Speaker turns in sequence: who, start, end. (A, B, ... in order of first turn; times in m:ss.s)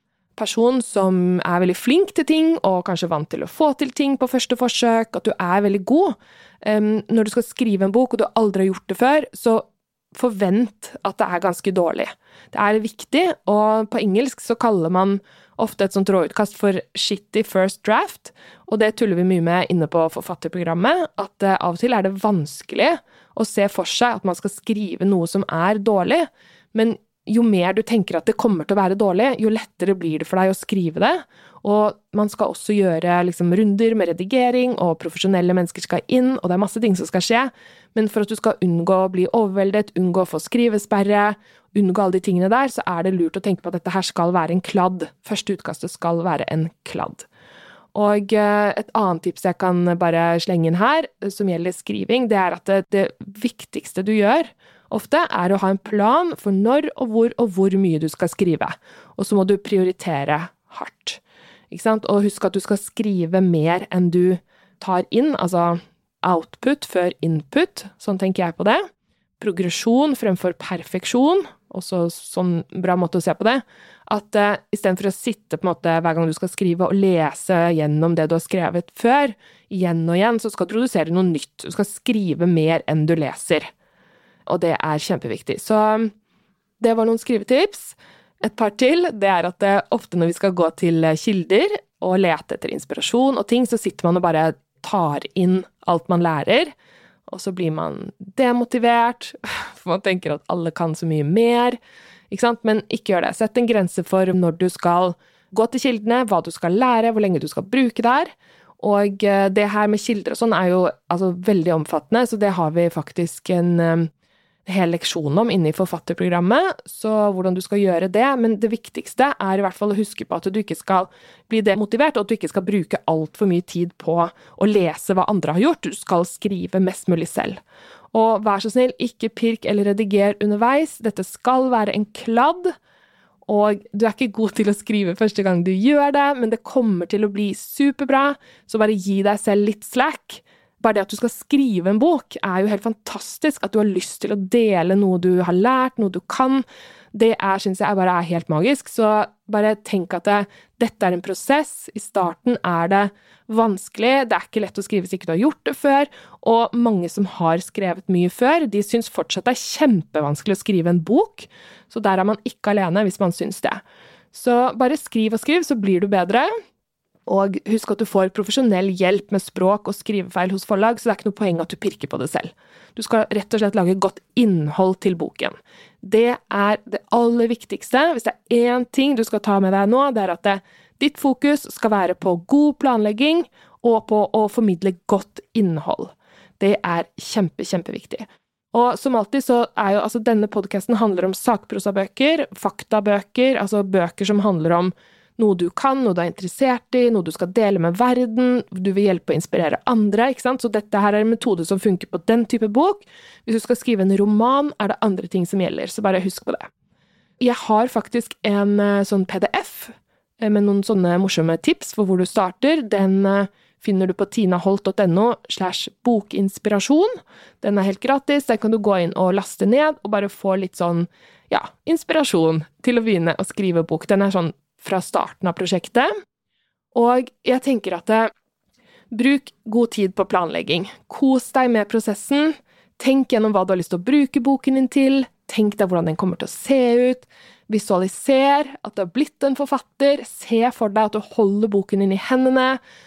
0:00.4-0:47.3 A
0:47.9-1:08.8 A
1:09.4-1:23.7 A
1:24.5-1:26.1 A
1:26.8-1:36.7 A
1:37.3-1:41.8 A
1:42.3-1:54.1 A
1:54.7-2:07.6 A
2:08.1-2:12.7 A
2:13.5-2:46.5 A
2:47.3-3:26.7 A
3:27.4-3:46.1 A
3:46.9-3:48.3 A
3:49.1-4:02.8 A